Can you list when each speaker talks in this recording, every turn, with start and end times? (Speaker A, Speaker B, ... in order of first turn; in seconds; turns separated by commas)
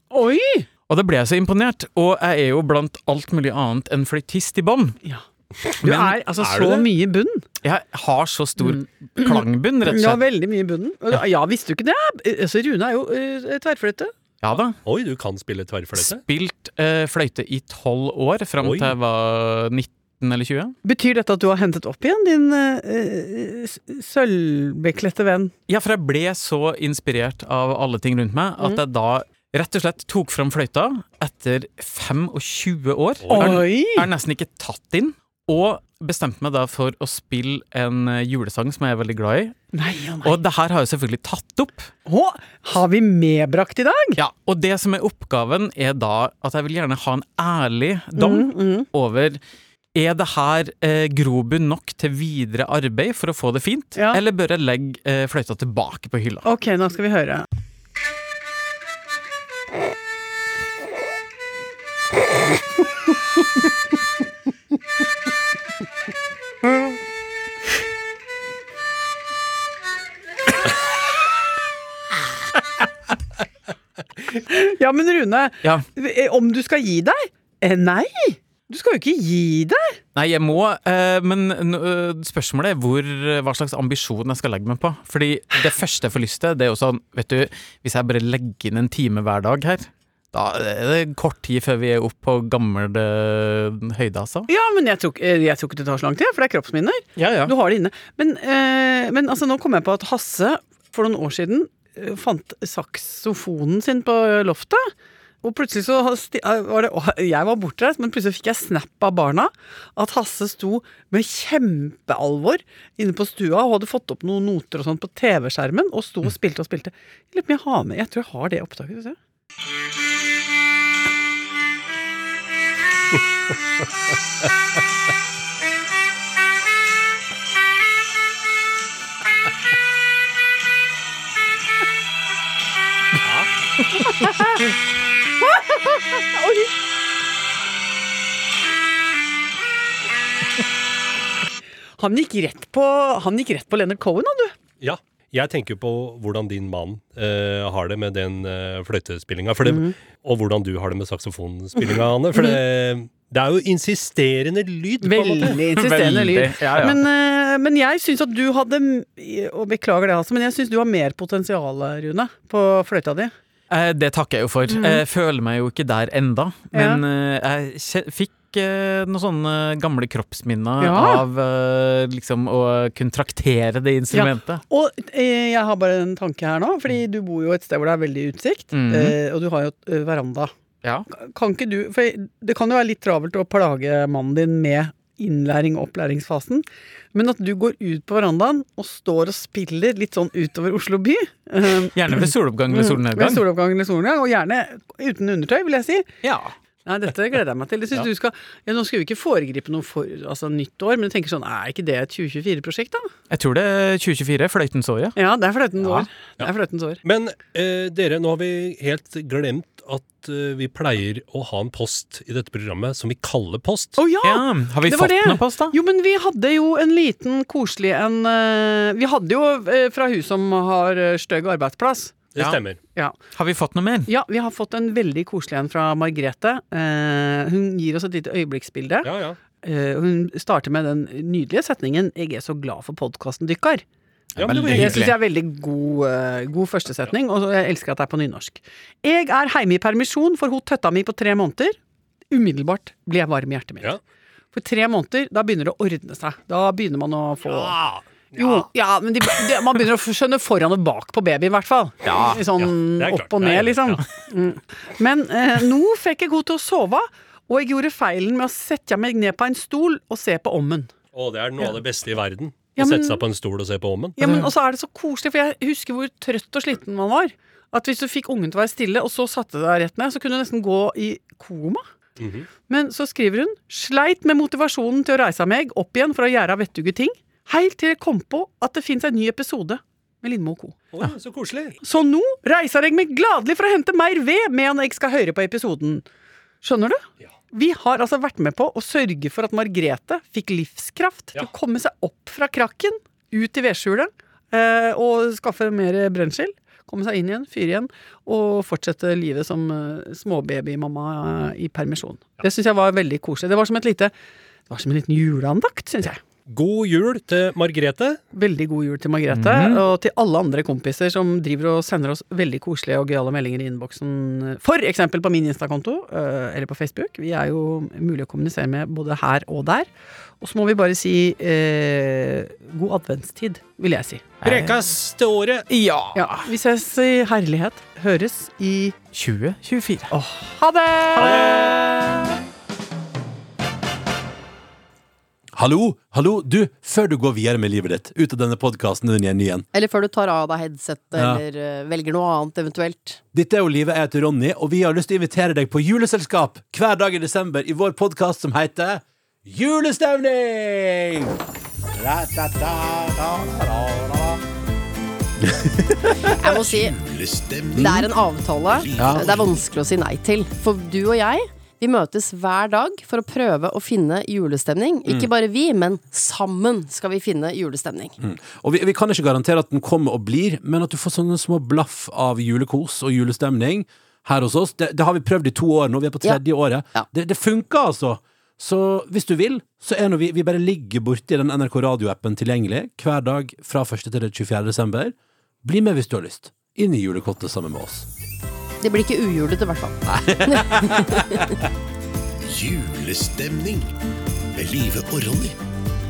Speaker A: 0.1-0.7, Speaker B: 0.9-5.0, Speaker A: 5.0-7.5, Speaker B: 5.8-6.2, Speaker C: 6.4-6.9, Speaker B: 7.6-10.2, Speaker A: 8.6-14.1, Speaker B: 14.4-14.8, Speaker C: 14.8-16.2, Speaker B: 16.0-20.8, Speaker C: 18.6-18.9, Speaker A: 20.8-25.5, Speaker B: 25.7-39.6, Speaker C: 33.2-33.6, Speaker A: 33.3-34.1, Speaker A: 39.7-40.4, Speaker B: 40.2-41.9, Speaker A: 42.1-44.2, Speaker B: 44.2-49.4, Speaker A: 48.2-48.9, Speaker B: 50.0-56.5, Speaker A: 56.5-57.5, Speaker A: 74.3-80.0, Speaker B: 80.2-94.5, Speaker A: 94.5-104.9, Speaker B: 97.2-97.5, Speaker A: 105.4-119.2, Speaker C: 133.2-133.5, Speaker A: 134.1-134.6, Speaker A: 135.4-136.7, Speaker A: 142.0-144.5, Speaker C: 144.8-155.6, Speaker A: 149.7-149.9, Speaker A: 155.0-163.3, Speaker B: 155.6-157.0, Speaker B: 163.7-174.6, Speaker A: 164.7-165.0, Speaker A: 166.7-167.0, Speaker A: 170.8-171.2, Speaker A: 174.1-180.5, Speaker B: 178.7-179.2, Speaker A: 181.1-196.1, Speaker B: 191.9-193.4, Speaker B: 196.2-196.5, Speaker A: 196.9-203.1, Speaker B: 203.3-205.2, Speaker A: 205.2-207.0, Speaker B: 205.8-206.1, Speaker C: 207.0-214.0, Speaker A: 214.0-222.2, Speaker B: 214.2-215.8, Speaker C: 222.3-222.8, Speaker B: 223.3-224.1, Speaker A: 224.1-229.1, Speaker C: 229.0-229.4, Speaker A: 229.6-233.8, Speaker B: 234.3-235.2, Speaker C: 234.4-235.1, Speaker A: 234.7-241.8, Speaker A: 242.3-244.0, Speaker A: 244.5-247.8, Speaker C: 247.5-248.7, Speaker A: 248.3-260.9, Speaker B: 252.1-252.4, Speaker C: 252.6-254.0, Speaker C: 261.1-264.2, Speaker A: 262.8-263.2, Speaker A: 264.2-271.8, Speaker B: 264.2-264.5, Speaker C: 272.2-272.5, Speaker A: 272.7-280.8, Speaker C: 280.9-281.8, Speaker A: 281.8-286.1, Speaker A: 286.6-304.1, Speaker A: 304.7-306.2, Speaker C: 306.5-308.2, Speaker A: 308.3-324.3, Speaker B: 309.3-309.8, Speaker B: 324.4-324.8, Speaker C: 324.4-325.7, Speaker B: 325.7-326.5, Speaker A: 326.1-329.0, Speaker B: 329.1-330.1, Speaker A: 330.1-332.2, Speaker C: 331.2-331.9, Speaker D: 335.6-339.7, Speaker E: 339.7-343.2, Speaker D: 341.2-341.4, Speaker D: 343.3-351.4, Speaker D: 352.0-354.4, Speaker D: 355.5-356.3, Speaker E: 356.4-356.9, Speaker F: 356.4-359.6, Speaker E: 357.8-368.1, Speaker D: 359.0-359.3, Speaker D: 368.2-388.1, Speaker E: 388.8-391.6, Speaker D: 390.1-391.5, Speaker F: 392.5-393.9, Speaker F: 394.5-395.6